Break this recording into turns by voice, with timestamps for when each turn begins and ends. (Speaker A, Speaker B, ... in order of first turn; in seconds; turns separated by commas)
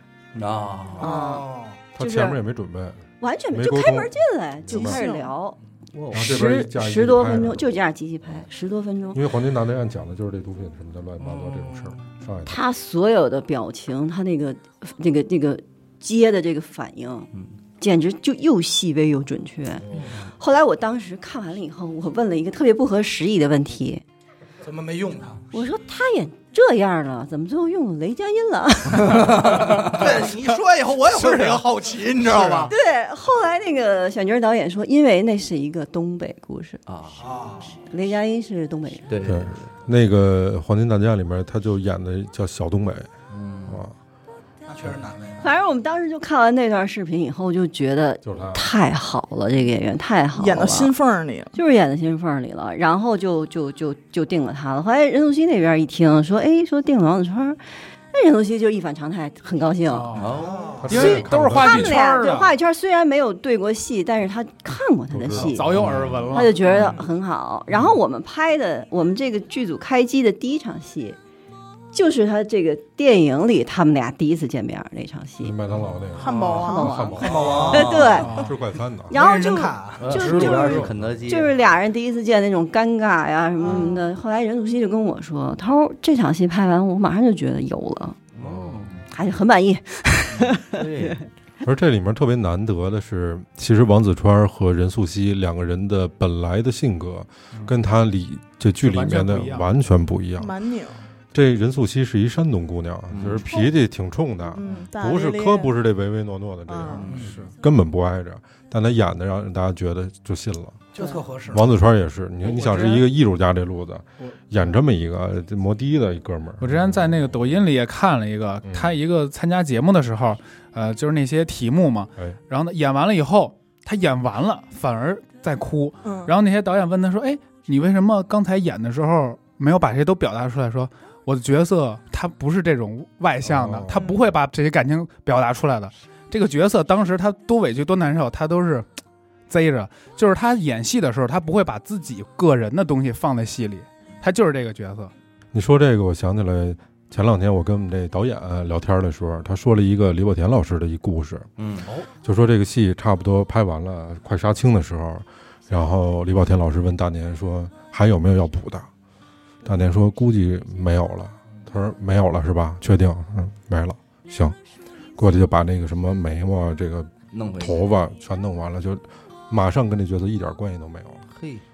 Speaker A: 0.3-1.1, Speaker B: 1.0-1.5, Speaker C: 1.0-1.8, Speaker D: 1.1-1.4, Speaker E: 1.9-4.1, Speaker B: 2.0-2.4, Speaker B: 3.2-5.6, Speaker E: 4.7-5.0, Speaker D: 4.7-5.3, Speaker A: 5.9-6.4, Speaker E: 6.1-7.7, Speaker B: 6.1-9.2, Speaker E: 9.1-12.6, Speaker A: 11.2-12.0, Speaker B: 12.4-19.9, Speaker E: 19.9-20.1, Speaker B: 20.4-24.0, Speaker C: 24.6-25.4, Speaker B: 25.5-29.8, Speaker A: 29.0-30.1, Speaker C: 29.7-32.7, Speaker F: 31.1-31.6, Speaker B: 32.7-36.8, Speaker A: 36.9-37.2, Speaker C: 37.2-37.7, Speaker B: 37.9-39.1, Speaker A: 39.1-39.7, Speaker E: 39.2-43.1, Speaker A: 43.3-43.9, Speaker E: 43.7-43.9, Speaker C: 44.7-45.5, Speaker B: 45.4-50.9, Speaker E: 48.2-48.6, Speaker D: 50.4-51.5, Speaker B: 51.5-57.6, Speaker B: 58.1-60.1, Speaker F: 59.9-62.5, Speaker A: 60.1-60.8, Speaker C: 60.4-61.1, Speaker E: 60.8-62.0, Speaker B: 60.9-65.7, Speaker E: 65.1-66.4, Speaker F: 65.3-66.6, Speaker B: 66.3-71.2, Speaker A: 66.7-67.0, Speaker B: 71.9-75.5, Speaker E: 75.4-79.2, Speaker D: 76.2-77.1, Speaker A: 76.3-76.6, Speaker B: 76.5-78.4, Speaker A: 77.2-78.4, Speaker C: 77.2-77.9, Speaker F: 78.2-78.5, Speaker B: 79.1-88.2, Speaker C: 79.1-80.4, Speaker A: 80.0-81.6, Speaker E: 80.0-81.2, Speaker D: 83.6-83.9, Speaker A: 88.3-89.0, Speaker E: 88.4-88.9, Speaker B: 89.1-91.2, Speaker A: 90.4-91.2, Speaker E: 91.6-100.6, Speaker F: 98.8-99.7, Speaker D: 100.4-101.0, Speaker E: 101.3-110.8, Speaker A: 103.1-103.5, Speaker D: 104.5-105.7, Speaker D: 106.7-107.1, Speaker A: 107.0-107.3, Speaker C: 111.0-111.8, Speaker E: 111.5-117.3, Speaker F: 112.4-113.0, Speaker F: 116.6-138.9, Speaker E: 118.6-119.0, Speaker D: 126.0-126.3, Speaker E: 133.4-134.0, Speaker D: 133.9-134.2, Speaker F: 139.5-145.1, Speaker E: 145.5-151.5, Speaker A: 151.6-152.1, Speaker E: 152.2-158.9, Speaker E: 159.6-164.6, Speaker E: 165.2-171.2, Speaker A: 167.3-167.8, Speaker A: 171.3-171.6